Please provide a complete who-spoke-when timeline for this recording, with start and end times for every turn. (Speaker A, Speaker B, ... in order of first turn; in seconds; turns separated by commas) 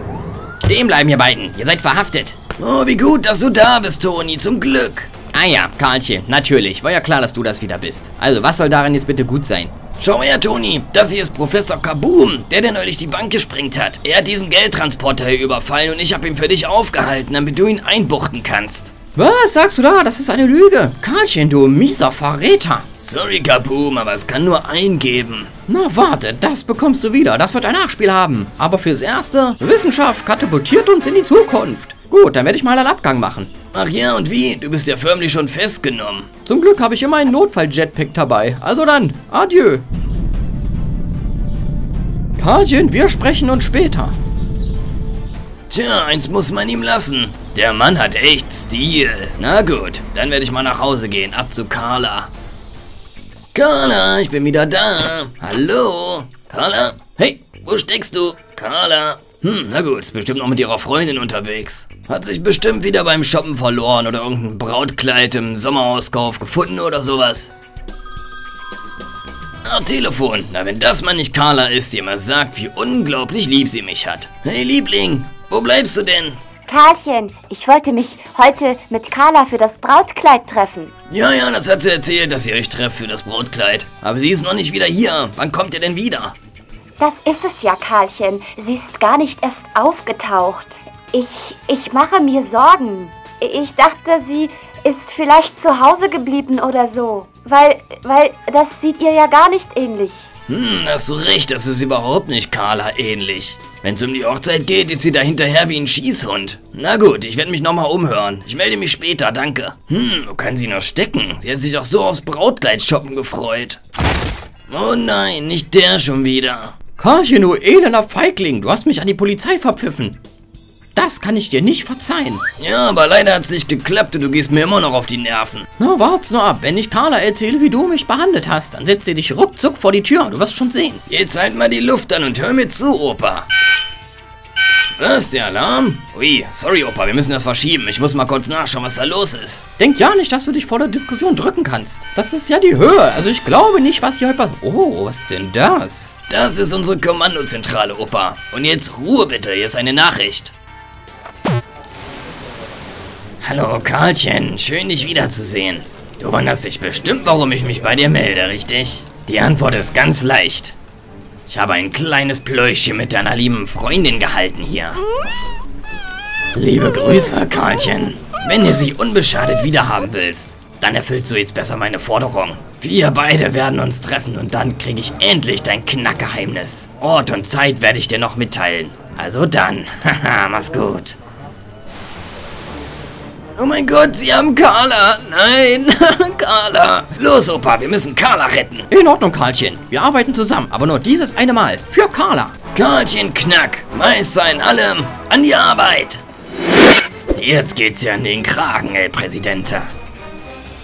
Speaker A: 0.7-2.4, Speaker B: 2.5-5.1, Speaker A: 5.3-9.8, Speaker B: 10.0-18.9, Speaker A: 19.1-22.9, Speaker B: 23.0-25.5, Speaker A: 25.7-33.5, Speaker B: 33.7-36.3, Speaker A: 36.5-39.8, Speaker A: 42.4-44.2, Speaker B: 45.7-52.3, Speaker B: 53.5-67.5, Speaker B: 69.7-76.4, Speaker C: 76.7-80.9, Speaker B: 81.1-86.3, Speaker C: 87.0-100.2, Speaker B: 100.5-113.8, Speaker B: 114.7-116.8, Speaker A: 117.0-120.2, Speaker A: 121.0-122.4, Speaker B: 122.6-125.7, Speaker A: 125.8-131.0, Speaker B: 131.1-133.5, Speaker B: 135.0-139.7, Speaker A: 139.8-146.2, Speaker B: 146.3-150.5, Speaker B: 153.4-160.8, Speaker B: 161.5-165.0, Speaker B: 166.5-181.2, Speaker B: 183.6-188.9, Speaker A: 188.9-192.6, Speaker B: 192.7-196.2, Speaker B: 197.3-199.9